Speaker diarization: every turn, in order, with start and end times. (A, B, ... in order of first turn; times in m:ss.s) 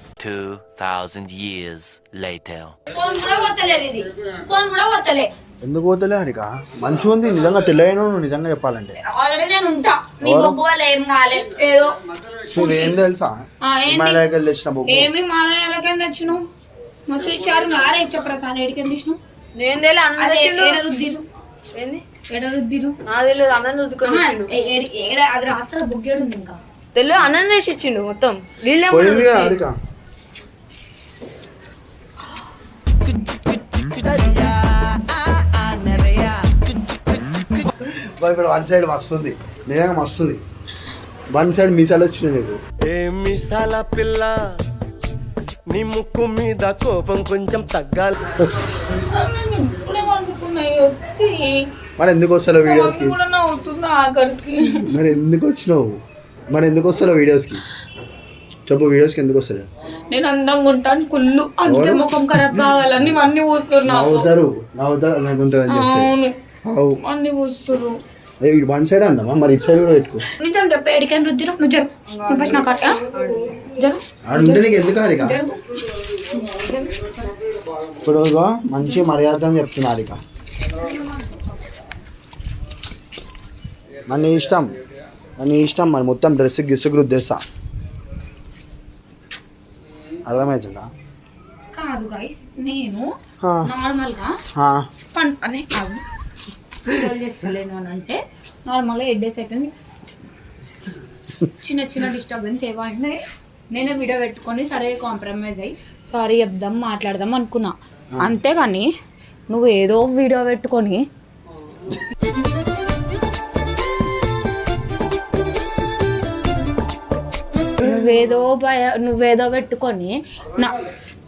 0:00.2-0:02.7 A
0:02.9-0:05.3 B
0:05.6-0:09.0 C
0:09.0-0:11.9 B
0:10.2-0:10.6 C
0:12.5-0:13.4 C
0:12.5-0:12.9 B
0:13.6-0:14.2 B
0:13.9-0:15.1 C
0:14.9-0:16.4 B
0:17.1-0:19.2 B
0:19.5-0:20.8 D
0:20.2-0:21.2 B
0:21.7-0:22.0 D
0:22.3-0:23.0 B
0:23.1-0:24.5 D
0:24.0-0:26.6 B
0:26.9-0:29.5 D
0:28.9-0:29.8 C
0:34.1-0:34.4 D
0:37.8-0:40.4 C
0:41.3-0:42.6 C
0:42.9-0:44.3 E
0:45.8-0:48.1 E
0:48.8-0:51.6 B
0:52.0-0:53.2 C
0:52.6-0:54.9 B
0:54.7-0:56.0 C
0:56.5-0:57.6 C
0:58.7-0:59.7 C
1:00.1-1:04.3 B
1:01.6-1:03.2 C
1:03.8-1:06.1 C
1:05.7-1:06.3 B
1:06.6-1:07.0 C
1:07.0-1:08.0 B
1:08.4-1:10.2 C
1:10.4-1:13.0 B
1:12.1-1:13.4 D
1:13.8-1:15.6 B
1:14.2-1:15.4 C
1:16.5-1:17.1 B
1:18.0-1:20.2 C
1:20.7-1:21.3 B
1:24.1-1:24.7 C
1:25.4-1:27.4 C
1:30.2-1:30.9 C
1:31.7-1:33.1 B
1:33.6-1:34.3 B
1:34.5-1:34.8 C
1:35.1-1:36.0 B
1:36.8-1:39.7 B
1:41.6-1:43.2 B
1:43.7-1:48.9 B
1:49.5-1:51.0 B
1:57.8-2:00.7 B